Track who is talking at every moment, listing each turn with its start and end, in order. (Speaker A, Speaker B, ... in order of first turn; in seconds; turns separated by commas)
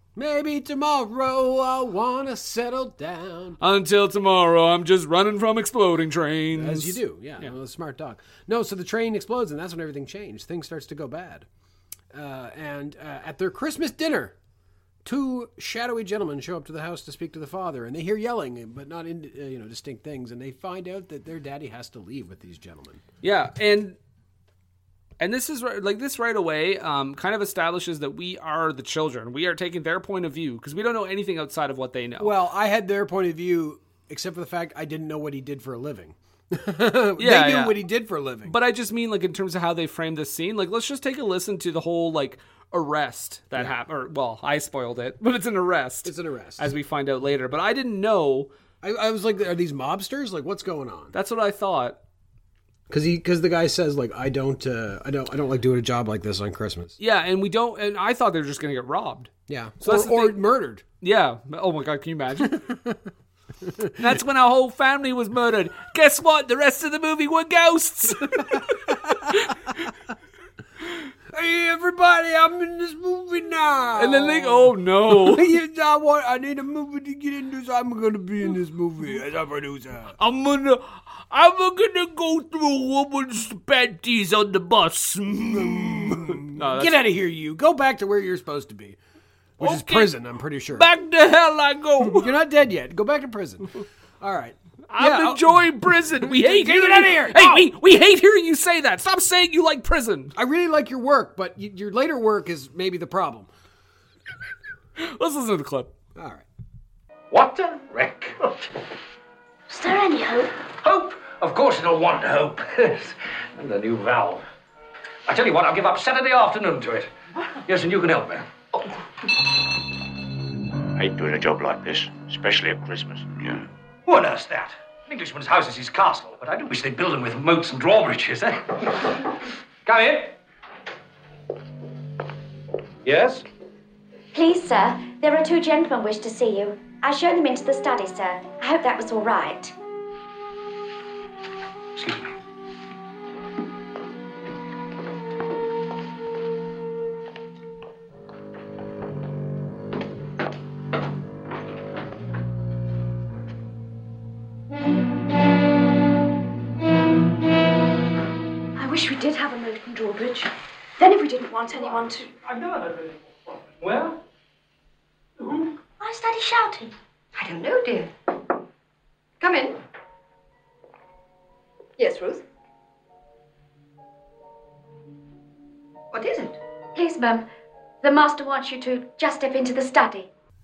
Speaker A: 0.1-3.6, Speaker B: 3.6-7.5, Speaker A: 6.5-11.5, Speaker A: 12.1-14.4, Speaker A: 15.0-23.0, Speaker B: 23.2-24.0, Speaker B: 25.2-32.3, Speaker A: 32.2-38.5, Speaker B: 37.2-37.8, Speaker B: 38.5-48.5, Speaker A: 46.0-46.7, Speaker A: 48.8-51.1, Speaker B: 51.1-52.0, Speaker A: 52.9-57.0, Speaker B: 57.0-59.3, Speaker A: 59.5-60.8, Speaker B: 59.8-60.4, Speaker B: 61.0-62.7, Speaker A: 62.5-63.0, Speaker A: 63.6-64.1, Speaker B: 64.0-69.7, Speaker A: 68.4-69.4, Speaker A: 71.3-80.2, Speaker B: 74.0-75.5, Speaker B: 80.2-87.0, Speaker A: 85.5-89.0, Speaker A: 89.6-90.9, Speaker B: 89.6-90.1, Speaker B: 90.7-92.3, Speaker A: 92.0-97.7, Speaker B: 94.9-100.3, Speaker A: 100.4-103.5, Speaker B: 105.0-105.9, Speaker A: 106.1-106.5, Speaker C: 107.3-108.7, Speaker D: 109.8-110.3, Speaker C: 110.8-114.5, Speaker C: 115.3-118.5, Speaker E: 121.0-123.7, Speaker C: 124.1-129.2, Speaker C: 129.8-130.3, Speaker C: 133.1-133.4, Speaker D: 134.3-139.7, Speaker C: 142.0-142.3, Speaker D: 158.8-162.3, Speaker C: 162.4-163.2, Speaker C: 163.8-164.2, Speaker F: 167.3-168.1, Speaker F: 169.4-169.8, Speaker F: 172.0-172.4, Speaker F: 176.1-176.6, Speaker D: 176.9-177.4, Speaker D: 178.0-180.2